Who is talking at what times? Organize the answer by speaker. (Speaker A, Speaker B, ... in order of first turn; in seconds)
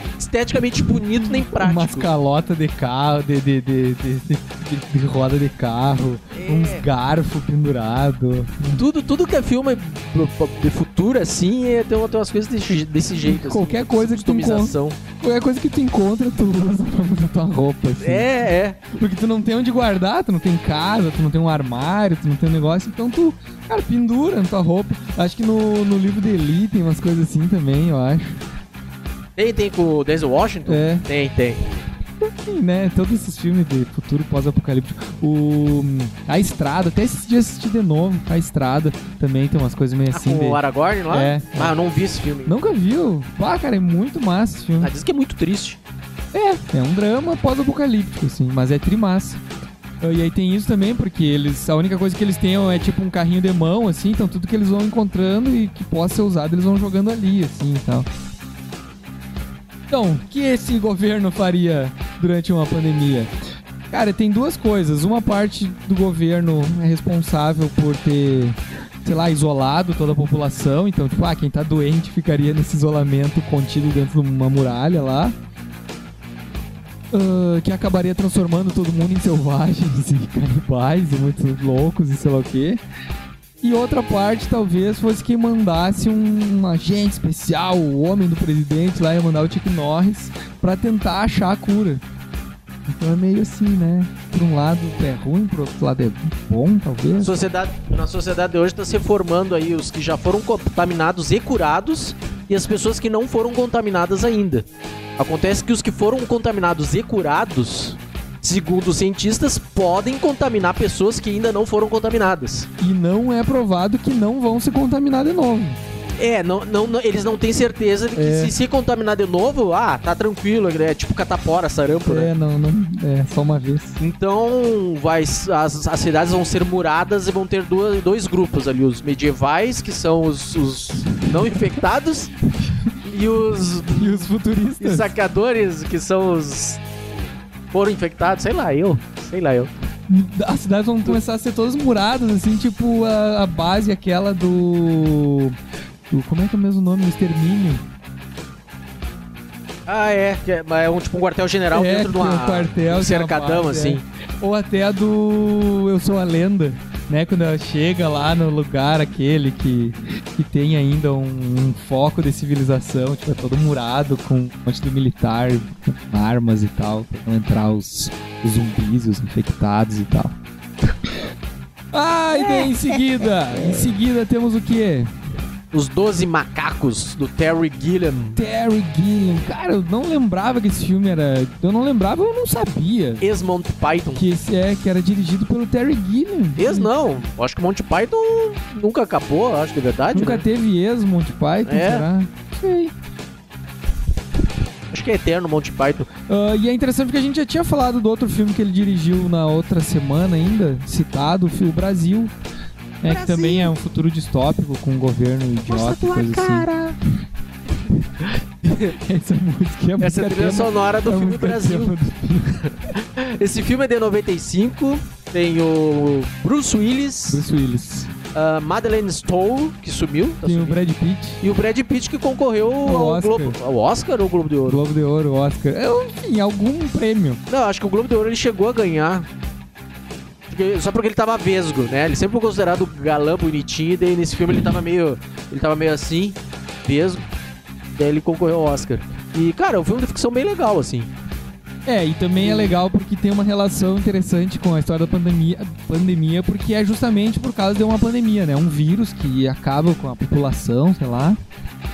Speaker A: 0.2-2.0, 6.3-6.8, 8.8-15.0, 18.0-18.8, 29.4-31.6, 40.1-42.5, 44.8-45.8, 97.2-112.7, 116.2-122.3, 124.0-132.3, 133.0-134.3, 134.8-136.8, 137.7-139.7, 149.9-154.0, 172.3-173.9, 175.7-178.4, 183.2-184.2, 186.6-190.4, 191.7-192.0, 194.9-196.1, 203.0-203.7, 205.7-207.0, 208.6-208.9, 210.0-211.9, 212.5-217.4, 218.3-220.8, 221.4-224.8, 227.5-229.3, 230.5-237.2, 237.9-241.1, 242.4-242.8
Speaker B: 1.1-8.8, 13.2-18.3, 18.9-28.4, 30.6-31.1, 32.2-41.7, 42.4-44.9, 46.3-49.4, 50.0-58.1, 59.9-63.3, 63.9-75.3, 77.1-82.8, 83.6-92.0, 92.9-97.4, 112.8-115.8, 118.2-118.5, 121.9-124.0, 131.2-131.8, 133.9-135.1, 140.1-145.6, 146.1-147.8, 151.7-170.4, 171.9-175.1, 178.3-183.3, 184.1-186.9, 190.1-192.9, 196.3-202.3, 203.0-206.7, 208.7-212.6, 217.3-218.1, 220.4-221.4, 222.8-223.6, 224.7-227.4, 241.8-251.4